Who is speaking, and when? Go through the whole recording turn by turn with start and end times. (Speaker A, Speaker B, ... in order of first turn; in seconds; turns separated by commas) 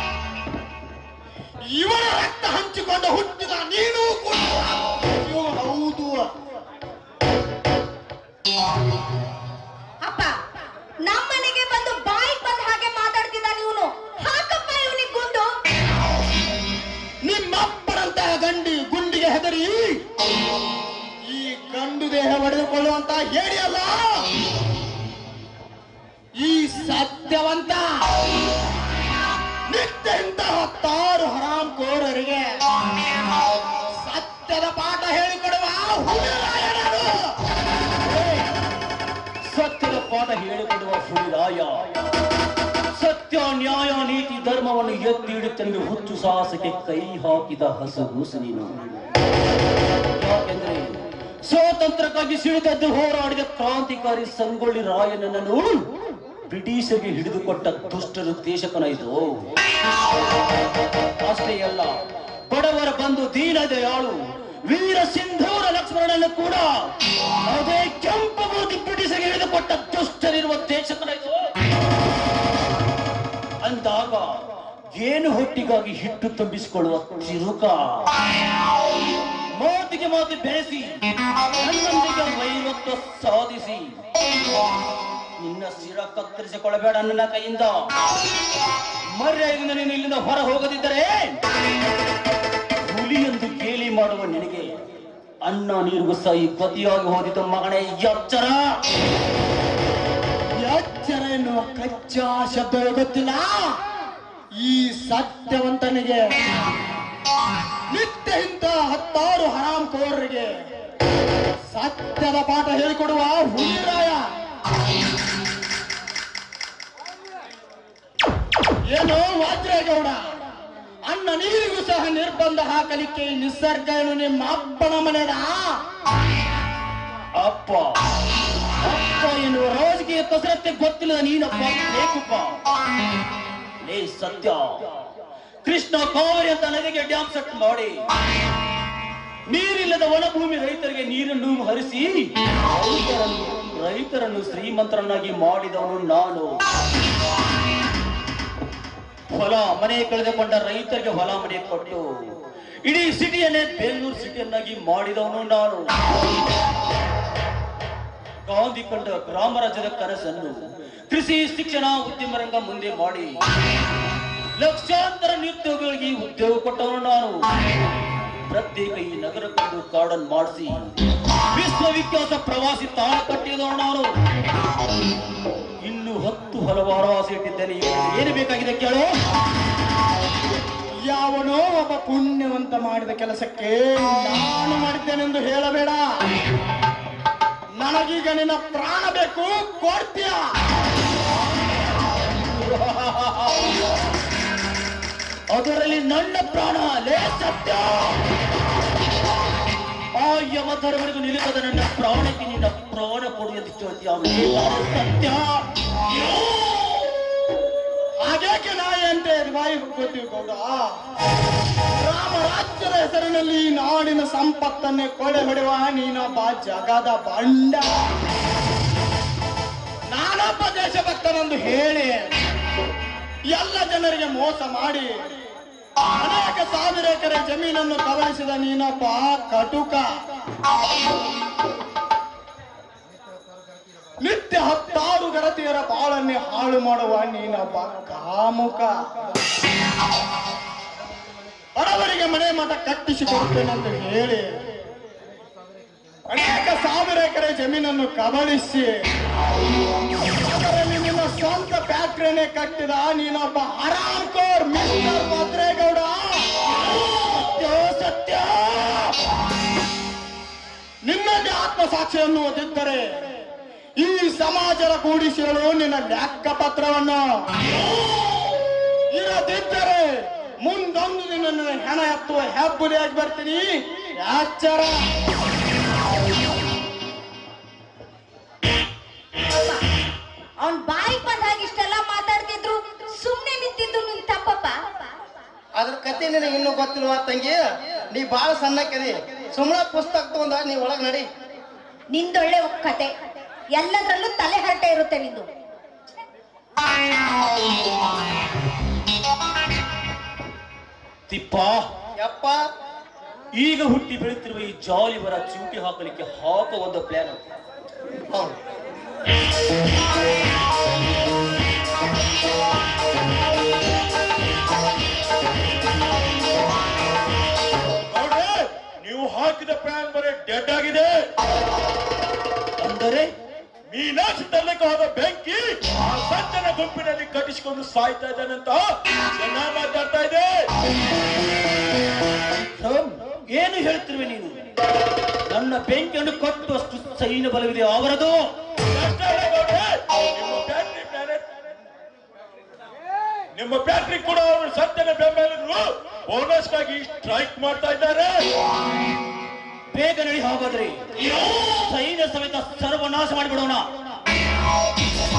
Speaker A: 1.7-6.3, Speaker B: 10.0-10.3, Speaker B: 11.0-15.5, Speaker A: 17.2-20.0, Speaker A: 21.3-24.2, Speaker A: 26.4-28.0, Speaker A: 29.7-32.5, Speaker A: 34.0-37.3, Speaker C: 38.0-38.5, Speaker C: 39.4-41.8, Speaker C: 42.9-48.8, Speaker C: 50.1-55.9, Speaker C: 56.5-59.5, Speaker C: 61.2-61.9, Speaker C: 62.5-66.9, Speaker C: 67.5-71.5, Speaker C: 73.6-74.3, Speaker C: 74.9-78.1, Speaker C: 79.6-81.0, Speaker C: 81.5-84.0, Speaker C: 85.4-87.9, Speaker C: 89.1-91.4, Speaker C: 92.8-94.8, Speaker C: 95.4-98.7, Speaker A: 100.6-103.8, Speaker A: 104.6-106.4, Speaker A: 107.9-110.5, Speaker A: 111.7-114.2, Speaker A: 118.9-120.2, Speaker A: 121.0-125.8, Speaker C: 127.3-128.0, Speaker C: 128.8-132.6, Speaker C: 133.8-135.1, Speaker C: 135.6-138.0, Speaker C: 139.5-146.6, Speaker C: 149.3-152.1, Speaker C: 152.8-155.9, Speaker C: 158.4-160.6, Speaker C: 161.1-163.4, Speaker C: 164.6-167.4, Speaker C: 168.5-170.9, Speaker C: 171.5-174.1, Speaker C: 175.8-179.1, Speaker A: 181.0-186.0, Speaker A: 187.8-190.4, Speaker C: 192.3-193.7, Speaker C: 195.5-198.2, Speaker C: 200.1-205.6, Speaker A: 208.2-210.8, Speaker A: 212.0-218.0, Speaker A: 220.1-222.3, Speaker A: 223.5-225.1, Speaker A: 226.2-230.0, Speaker A: 234.2-238.9, Speaker A: 241.8-244.5, Speaker A: 246.3-248.9, Speaker A: 250.4-256.4, Speaker C: 256.7-259.2, Speaker A: 261.0-263.1, Speaker A: 264.0-267.2, Speaker A: 269.1-274.9, Speaker B: 279.5-279.8, Speaker B: 280.6-285.1, Speaker D: 285.8-291.3, Speaker B: 292.1-293.1, Speaker B: 293.8-295.5, Speaker C: 301.3-301.9, Speaker D: 302.2-302.6, Speaker C: 303.6-307.4, Speaker E: 318.1-321.3, Speaker C: 322.8-323.3, Speaker E: 323.9-330.7, Speaker C: 332.5-334.6, Speaker C: 335.5-338.4, Speaker E: 338.9-341.4, Speaker E: 343.5-348.5, Speaker C: 349.9-353.9